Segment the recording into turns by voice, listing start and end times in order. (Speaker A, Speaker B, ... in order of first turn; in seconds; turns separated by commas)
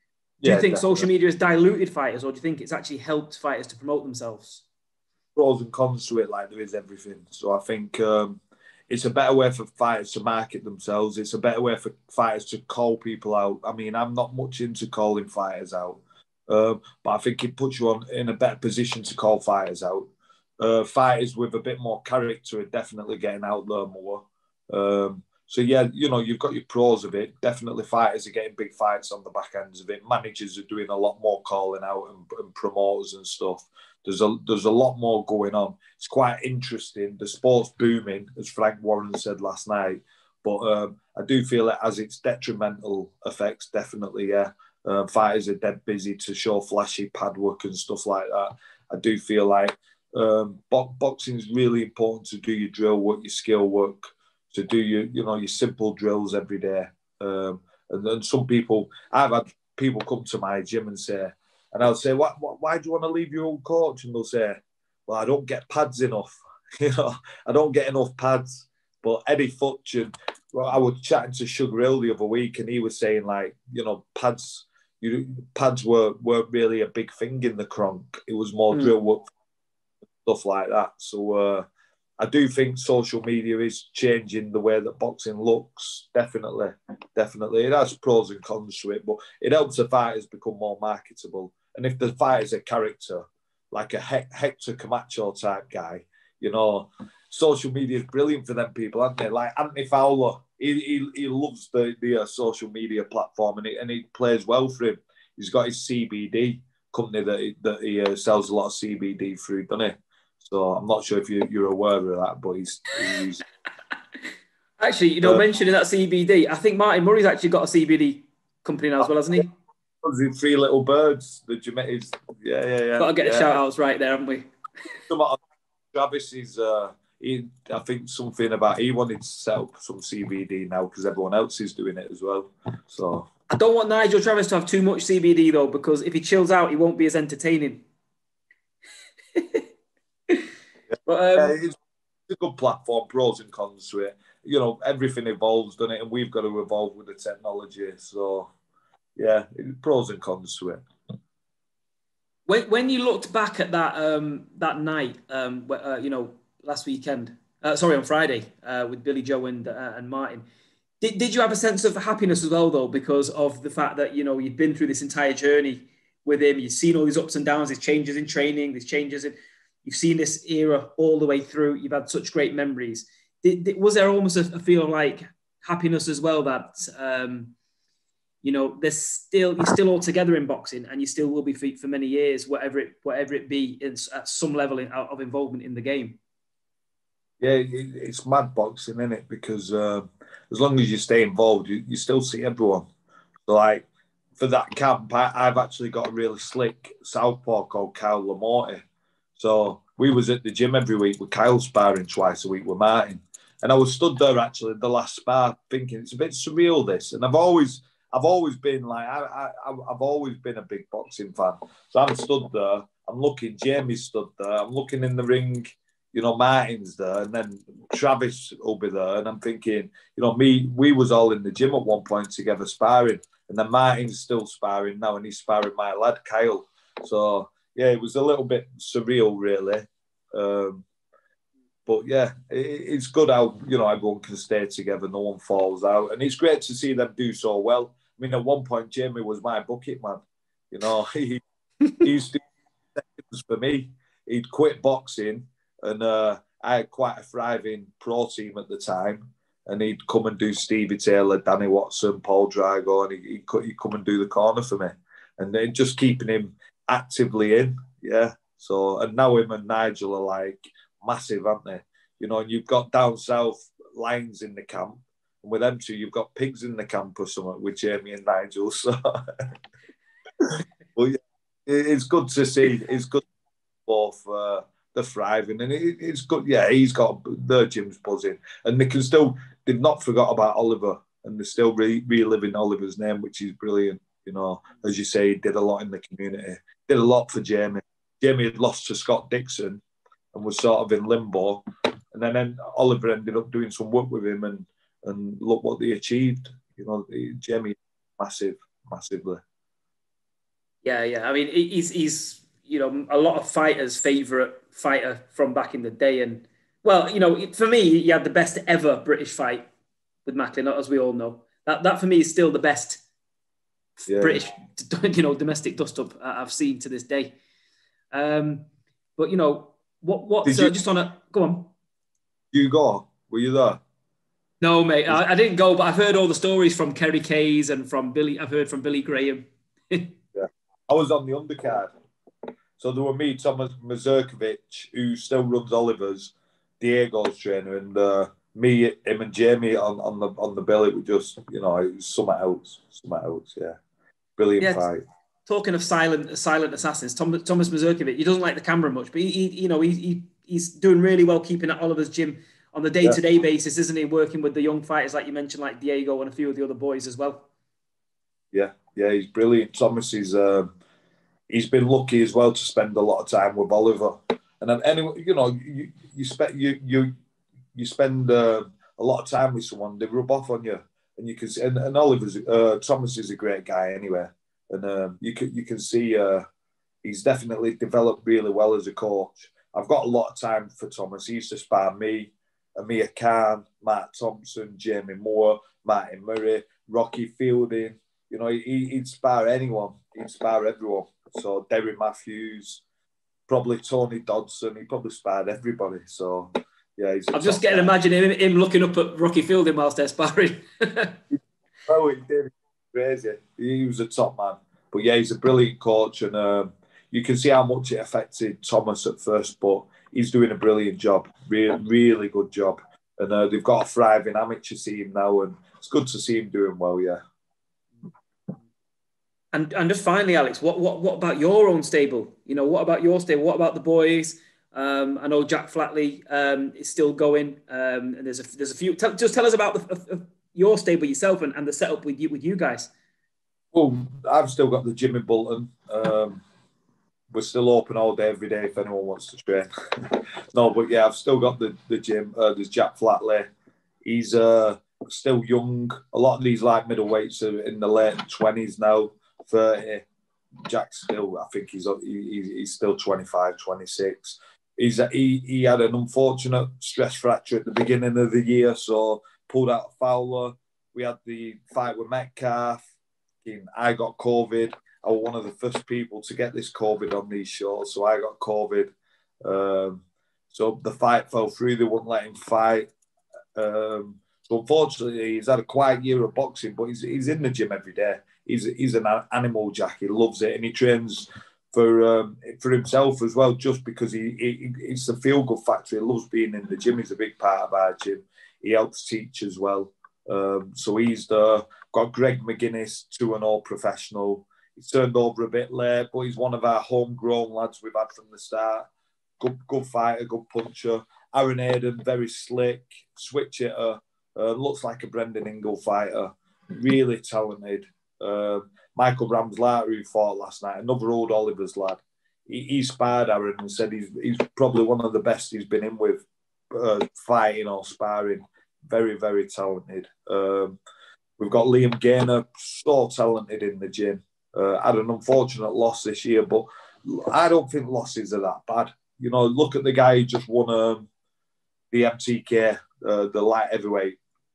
Speaker A: 0.4-1.1, Speaker B: 0.4-4.6, Speaker A: 5.4-79.3, Speaker A: 80.2-81.7, Speaker A: 82.2-113.4, Speaker B: 114.8-119.5, Speaker A: 119.0-119.4, Speaker A: 120.0-123.6, Speaker B: 123.0-124.5, Speaker A: 125.1-125.4, Speaker A: 125.9-133.3, Speaker B: 133.5-137.8, Speaker B: 139.3-139.7, Speaker B: 141.1-141.6, Speaker A: 141.4-148.5, Speaker A: 149.2-150.8, Speaker B: 152.5-160.4, Speaker B: 161.0-177.6, Speaker B: 178.4-186.2, Speaker A: 187.4-192.9, Speaker A: 193.5-198.8, Speaker A: 199.4-230.8, Speaker A: 231.9-241.4, Speaker A: 242.0-242.4, Speaker A: 242.9-269.6, Speaker A: 270.4-273.2, Speaker A: 273.9-299.4, Speaker B: 300.9-309.7, Speaker B: 310.3-313.0, Speaker B: 314.0-317.4, Speaker A: 314.1-314.4, Speaker B: 318.1-321.7, Speaker A: 320.4-320.8, Speaker A: 322.5-323.8, Speaker B: 324.6-330.2, Speaker A: 330.4-331.9, Speaker A: 332.8-343.8, Speaker A: 344.4-345.0, Speaker B: 344.6-344.9, Speaker B: 345.5-357.5, Speaker A: 358.5-360.7, Speaker A: 361.5-367.1, Speaker A: 367.7-376.4, Speaker A: 377.0-392.8, Speaker A: 393.5-397.9, Speaker B: 397.3-401.2, Speaker A: 401.3-417.2, Speaker B: 419.5-432.9, Speaker A: 433.7-436.4, Speaker A: 437.3-443.5, Speaker A: 444.1-450.1, Speaker A: 450.7-462.9, Speaker A: 463.4-468.9, Speaker A: 469.4-472.9, Speaker A: 473.6-498.9, Speaker A: 499.4-520.8, Speaker A: 521.4-531.1, Speaker A: 531.9-534.2